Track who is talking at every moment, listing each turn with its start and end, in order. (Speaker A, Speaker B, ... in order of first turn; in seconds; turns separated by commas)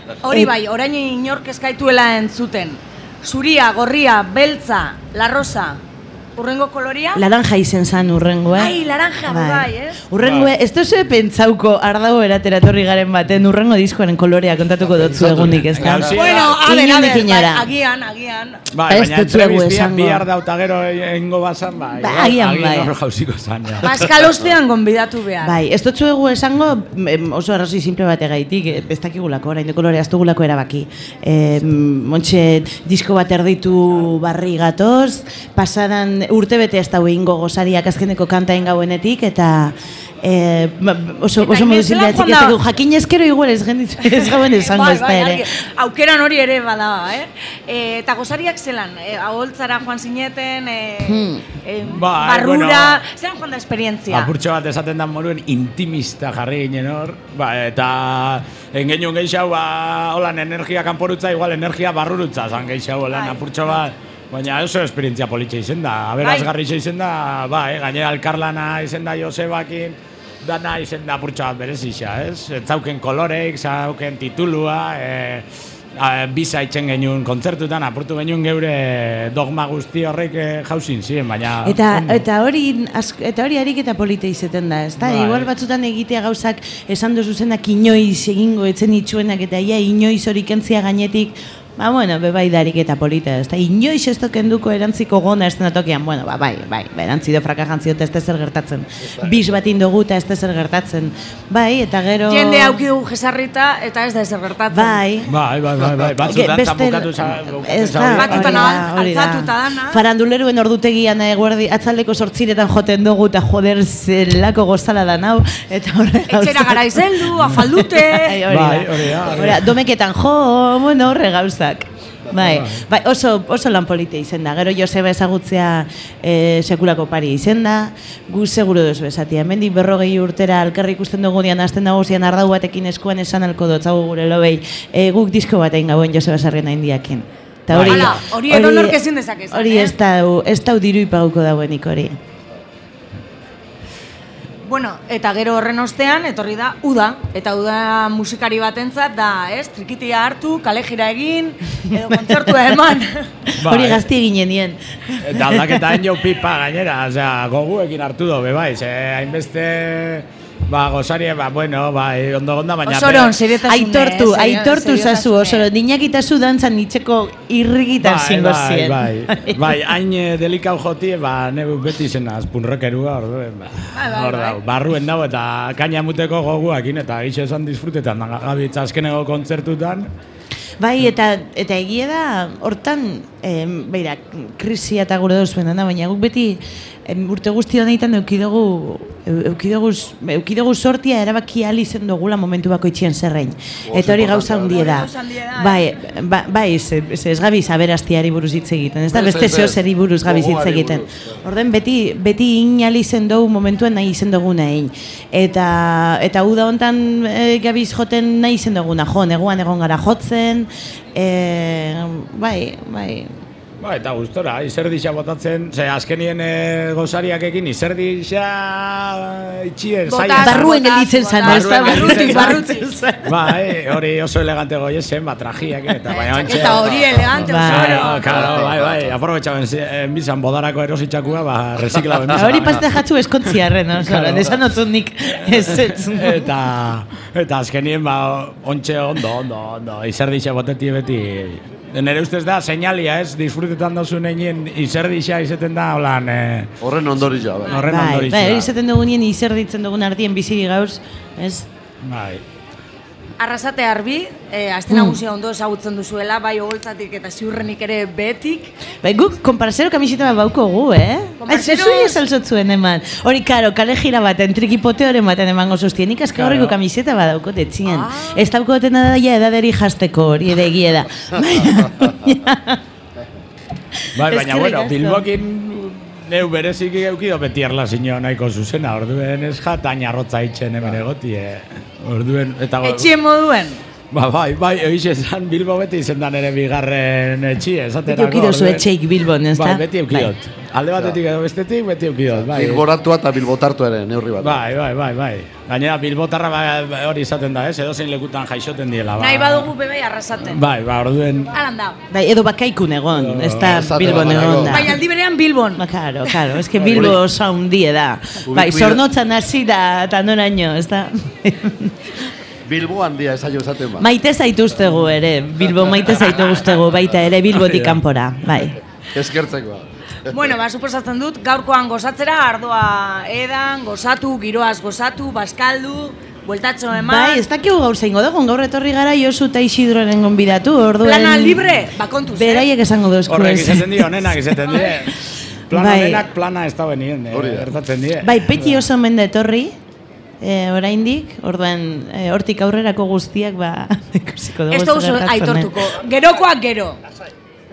Speaker A: 0.2-5.8, Speaker A: 6.3-7.2, Speaker B: 7.2-17.7, Speaker A: 8.5-10.0, Speaker C: 10.2-10.5, Speaker C: 15.2-16.6, Speaker A: 16.1-18.6, Speaker C: 18.7-23.9, Speaker B: 18.9-20.2, Speaker B: 21.9-22.9, Speaker A: 23.8-25.6, Speaker B: 25.4-45.5, Speaker A: 41.4-42.6, Speaker A: 44.0-54.3, Speaker B: 51.0-51.4, Speaker C: 51.9-53.0, Speaker C: 54.1-75.5, Speaker A: 66.2-66.5, Speaker C: 76.0-82.2, Speaker B: 81.6-102.8, Speaker C: 85.0-85.5, Speaker A: 102.2-105.0, Speaker B: 104.7-105.3, Speaker C: 105.3-108.8, Speaker B: 106.2-139.0, Speaker A: 108.2-110.0, Speaker A: 116.3-118.4, Speaker C: 118.5-119.8, Speaker C: 122.3-122.8, Speaker C: 137.7-138.2, Speaker A: 137.8-139.9, Speaker B: 139.5-142.2, Speaker A: 144.6-153.2, Speaker B: 152.1-152.6, Speaker B: 153.5-156.0, Speaker C: 153.6-154.1, Speaker C: 155.2-163.4, Speaker A: 162.8-165.7, Speaker B: 163.6-169.8, Speaker C: 168.0-180.1, Speaker A: 173.9-174.6, Speaker B: 180.8-213.3, Speaker D: 193.8-195.0, Speaker A: 194.6-195.8, Speaker D: 199.1-201.3, Speaker C: 213.8-220.7, Speaker A: 220.1-222.8, Speaker B: 220.4-223.4, Speaker C: 221.4-222.6, Speaker C: 223.2-232.9, Speaker A: 226.1-228.6, Speaker D: 226.5-227.4, Speaker B: 227.4-228.1, Speaker D: 228.2-229.1, Speaker B: 232.3-236.5, Speaker C: 234.0-234.6, Speaker C: 236.1-246.7, Speaker D: 246.8-247.8, Speaker C: 247.6-248.7, Speaker B: 247.8-251.7, Speaker C: 252.0-252.4, Speaker A: 253.4-258.8, Speaker B: 254.9-255.2, Speaker B: 259.0-272.8, Speaker A: 261.4-262.2, Speaker C: 266.4-266.8, Speaker A: 267.9-268.5, Speaker B: 273.9-275.3, Speaker C: 274.1-283.1, Speaker A: 282.8-283.8, Speaker C: 284.1-288.9, Speaker B: 288.1-290.4, Speaker C: 289.5-292.9, Speaker D: 290.9-291.2, Speaker D: 292.3-294.6, Speaker C: 294.4-299.7, Speaker A: 299.2-300.6, Speaker C: 300.5-301.5, Speaker A: 301.5-302.0, Speaker B: 302.1-305.0, Speaker C: 303.1-304.5, Speaker D: 303.6-304.9, Speaker A: 304.6-305.8, Speaker B: 305.8-312.2, Speaker C: 306.7-307.2, Speaker D: 306.9-307.2, Speaker D: 308.4-309.0, Speaker D: 312.6-314.1, Speaker B: 314.0-318.8, Speaker C: 317.6-318.0, Speaker D: 319.1-320.3, Speaker A: 320.3-327.4, Speaker B: 326.9-334.8, Speaker A: 331.0-332.7, Speaker C: 333.3-338.9, Speaker B: 335.7-336.2, Speaker D: 337.3-337.7, Speaker B: 338.2-339.7, Speaker B: 340.4-345.8, Speaker A: 344.7-347.0